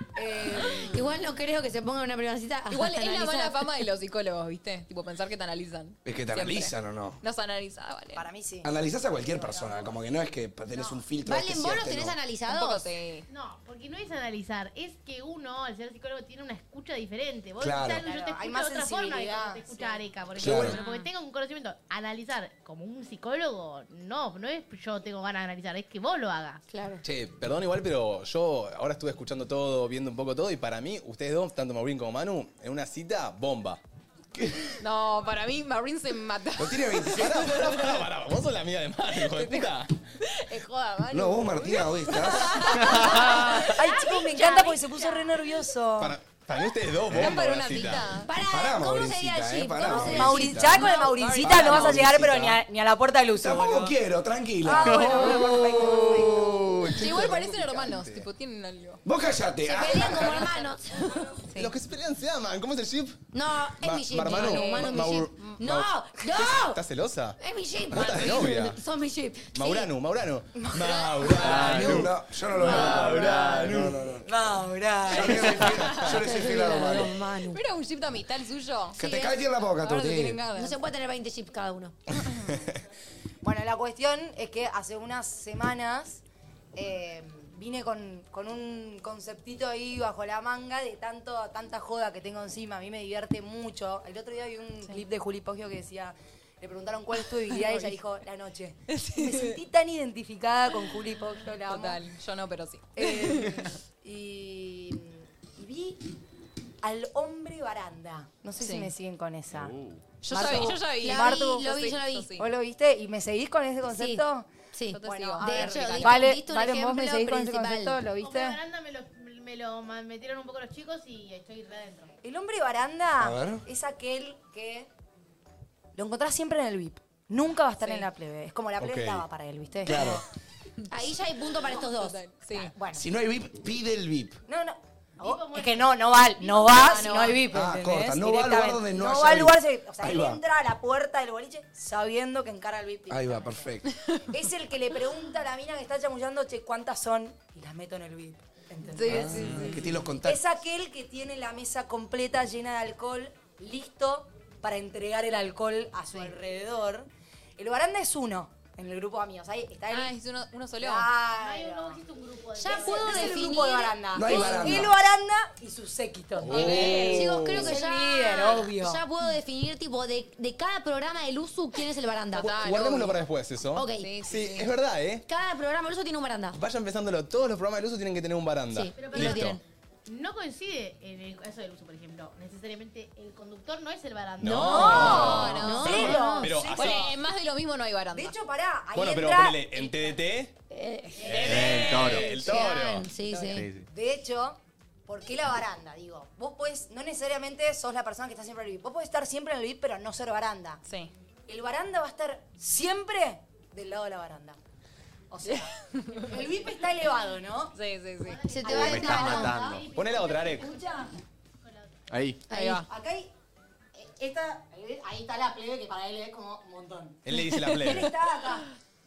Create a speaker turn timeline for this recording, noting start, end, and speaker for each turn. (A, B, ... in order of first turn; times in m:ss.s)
0:00.2-0:01.0 A
0:00.8-0:03.6 B
0:02.7-0:08.2 C
0:06.0-0:07.2 D
0:08.1-0:10.0 A
0:08.6-0:12.2 D
0:10.8-0:11.0 A
0:11.2-0:12.9 B
0:12.5-0:13.3 C
0:13.3-0:26.6 E
0:17.6-0:18.1 D
0:18.0-0:20.1 A
0:20.4-0:20.8 D
0:20.6-0:21.0 C
0:26.7-0:27.0 B
0:27.0-0:33.8 F
0:34.4-0:34.7 D
0:34.8-0:38.0 C
0:36.6-0:37.6 D
0:37.1-0:39.9 F
0:39.2-0:44.1 C
0:41.1-0:42.8 D
0:42.9-0:43.2 B
0:43.5-0:46.2 A
0:43.9-0:45.0 B
0:46.0-0:48.1 F
0:47.1-0:48.3 C
0:48.2-0:50.9 B
0:48.4-0:52.6 D
0:49.8-0:54.0 A
0:50.7-0:52.1 C
0:53.4-0:56.9 D
0:54.6-0:56.8 A
0:56.2-0:58.3 F
0:56.9-0:59.0 C
0:59.0-1:00.5 D
0:59.6-1:01.3 B
0:59.9-1:00.6 C
1:01.4-1:01.7 C
1:01.6-1:03.2 F
1:03.3-1:06.8 B
1:03.8-1:07.4 F
1:04.3-1:05.1 C
1:07.4-1:09.9 B
1:07.9-1:08.8 F
1:09.5-1:14.0 F
1:10.6-1:11.4 A
1:11.4-1:12.1 G
1:11.4-1:14.3 D
1:12.7-1:13.7 B
1:14.2-1:15.6 A
1:15.1-1:17.2 D
1:15.7-1:16.8 C
1:16.1-1:17.6 B
1:17.5-1:20.8 C
1:19.0-1:20.4 D
1:19.0-1:19.3 B
1:20.6-1:22.0 B
1:23.4-1:26.2 A
1:26.8-1:42.0 A
1:37.4-1:37.9 C
1:38.9-1:39.5 C
1:41.7-1:43.7 C
1:43.0-1:46.1 A
1:46.8-1:49.7 A
1:48.6-1:48.9 C
1:49.5-1:50.0 G
1:50.2-1:52.5 C
1:50.3-1:51.7 A
1:51.0-1:52.3 B
1:52.4-1:54.5 A
1:53.9-1:58.0 B
1:54.9-1:56.4 C
1:55.0-1:58.6 A
1:58.2-2:02.2 E
2:02.2-2:04.9 A
2:03.2-2:03.6 D
2:06.0-2:10.2 A
2:08.8-2:09.2 F
2:09.8-2:10.2 D
2:10.9-2:12.2 B
2:11.6-2:12.7 C
2:12.5-2:13.1 A
2:12.9-2:14.4 D
2:14.5-2:23.7 A
2:15.2-2:17.3 E
2:16.7-2:17.4 C
2:17.5-2:20.4 D
2:23.1-2:23.9 D
2:24.3-2:29.7 A
2:28.9-2:30.0 C
2:29.0-2:30.4 D
2:30.2-2:40.2 A
2:39.9-2:41.1 C
2:40.8-2:42.0 A
2:41.4-2:43.5 E
2:42.6-2:44.8 B
2:42.6-2:49.0 A
2:44.2-2:45.0 D
2:46.5-2:47.4 G
2:46.5-2:47.2 C
2:46.9-2:52.7 B
2:52.3-2:53.2 C
2:52.6-2:55.2 F
2:53.8-2:54.1 B
2:54.0-2:54.7 C
2:55.3-2:56.6 B
2:56.5-2:59.6 F
2:58.7-2:59.6 B
2:59.0-3:05.3 E
3:04.4-3:07.1 F
3:04.5-3:06.6 B
3:04.6-3:07.0 A
3:04.8-3:08.4 C
3:06.7-3:07.0 E
3:08.1-3:09.8 A
3:08.9-3:10.5 F
3:10.7-3:13.7 B
3:11.3-3:13.1 F
3:11.4-3:12.3 G
3:13.3-3:13.6 C
3:13.5-3:13.9 G
3:13.9-3:20.8 A
3:20.8-3:21.1 C
3:21.5-3:24.6 A
3:25.3-3:27.8 A
3:25.4-3:26.3 C
3:27.7-3:28.5 C
3:28.2-3:31.1 E
3:28.5-3:29.6 B
3:28.7-3:29.8 G
3:29.3-3:29.8 A
3:29.9-3:30.7 F
3:30.6-3:31.1 A
3:31.6-3:32.1 E
3:32.1-3:32.4 G
3:32.5-3:32.8 B
3:32.5-3:32.9 C
3:32.9-3:33.3 A
3:34.0-3:37.2 A
3:37.3-3:38.1 F
3:37.3-3:38.1 C
3:37.8-3:38.7 A